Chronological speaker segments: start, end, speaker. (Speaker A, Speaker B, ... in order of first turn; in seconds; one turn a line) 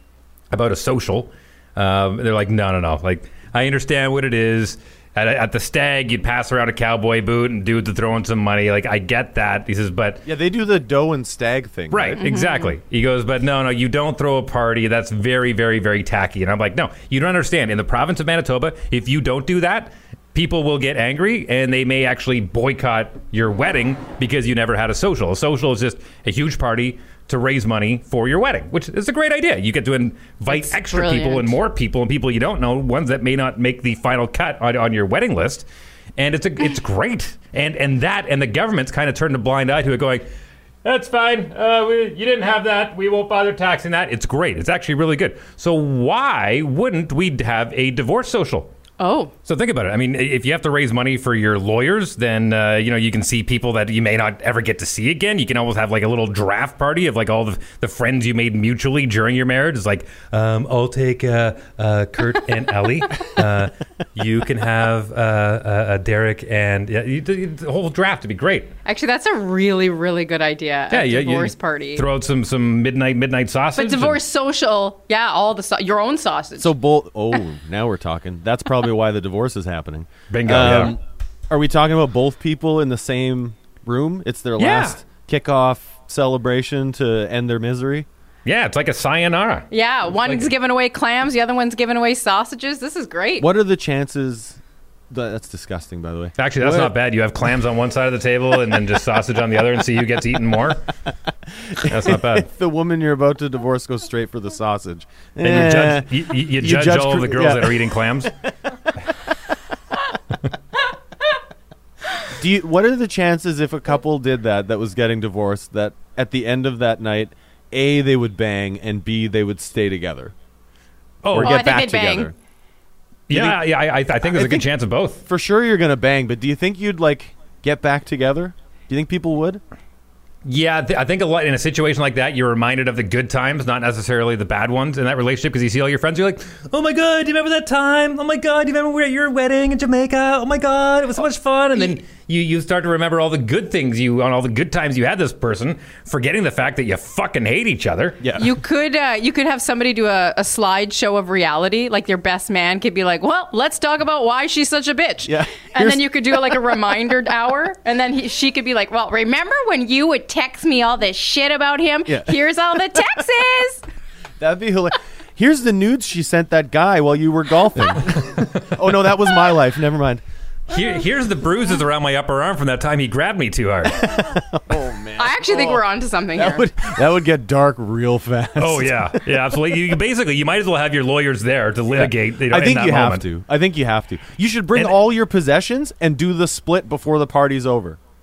Speaker A: 0.5-10.2
Speaker B: 10.2-12.2
Speaker A: 11.9-35.6
Speaker C: 12.2-12.7
Speaker C: 30.5-31.6
Speaker A: 36.2-40.3
Speaker A: 40.8-48.7
Speaker C: 49.0-49.3
Speaker A: 49.4-68.7
Speaker C: 68.8-72.0
Speaker A: 70.9-74.2
Speaker C: 73.7-76.7
Speaker B: 76.6-88.1
Speaker A: 80.3-81.0
Speaker A: 84.6-85.0
Speaker A: 88.5-90.5
Speaker C: 89.7-93.5
Speaker B: 93.4-94.6
Speaker B: 95.1-96.9
Speaker A: 96.4-100.8
Speaker B: 101.7-108.0
Speaker A: 101.8-102.5
Speaker A: 105.4-108.3
Speaker B: 112.3-120.3
Speaker A: 121.2-121.8
Speaker B: 121.3-122.3
Speaker C: 121.4-122.3
Speaker A: 123.3-125.2
Speaker B: 123.3-123.7
Speaker B: 124.2-124.7
Speaker B: 125.2-129.6
Speaker A: 130.4-148.2
Speaker B: 148.2-148.5
Speaker C: 148.4-163.8
Speaker B: 155.2-156.2
Speaker B: 162.1-162.4
Speaker B: 164.4-170.2
Speaker A: 170.7-174.2
Speaker B: 173.9-179.4
Speaker C: 175.2-176.7
Speaker A: 178.6-183.2
Speaker B: 181.9-188.0
Speaker A: 184.7-185.0